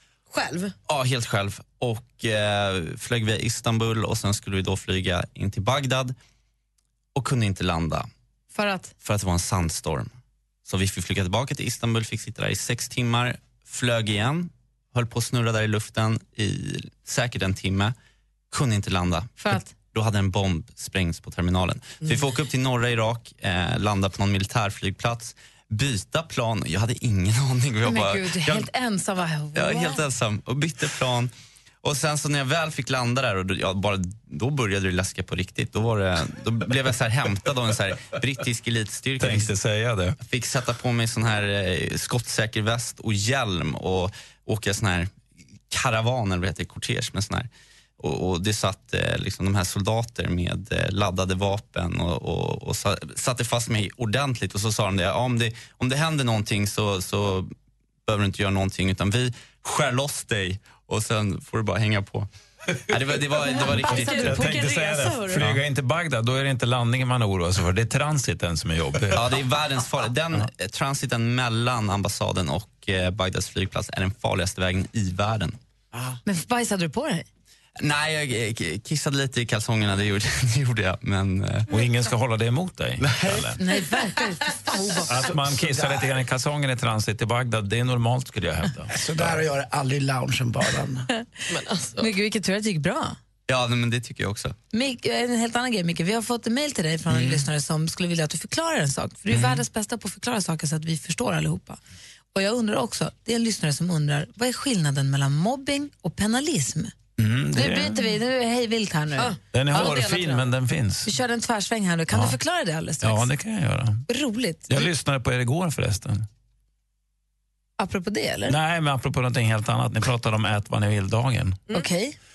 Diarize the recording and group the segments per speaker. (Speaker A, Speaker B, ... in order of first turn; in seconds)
Speaker A: 0.3-0.7, 63.4-65.5, 91.5-92.1, 109.2-110.5
Speaker B: 0.9-6.2, 7.2-8.1, 9.0-10.1, 10.7-18.0, 18.5-28.7, 29.6-31.3, 31.8-39.5, 40.2-45.1, 45.7-57.5, 58.1-62.3, 62.9-64.3, 69.1-75.6, 77.8-81.7, 93.5-94.5
Speaker C: 8.5-8.9, 19.4-19.7, 27.8-30.0, 63.9-64.2, 76.2-77.2, 83.6-85.1, 92.0-93.2, 94.7-101.8, 102.3-106.9, 107.5-109.8, 111.0-113.3, 114.1-114.9, 117.8-118.6, 121.7-122.1
Speaker D: 39.2-40.2, 64.1-69.3, 81.7-83.6, 85.1-89.4, 97.1-97.5, 99.3-99.6, 107.2-108.2, 109.5-111.1, 112.1-112.4, 113.0-114.0, 114.7-116.3, 118.5-121.6
Speaker E: 85.1-86.2, 88.9-91.1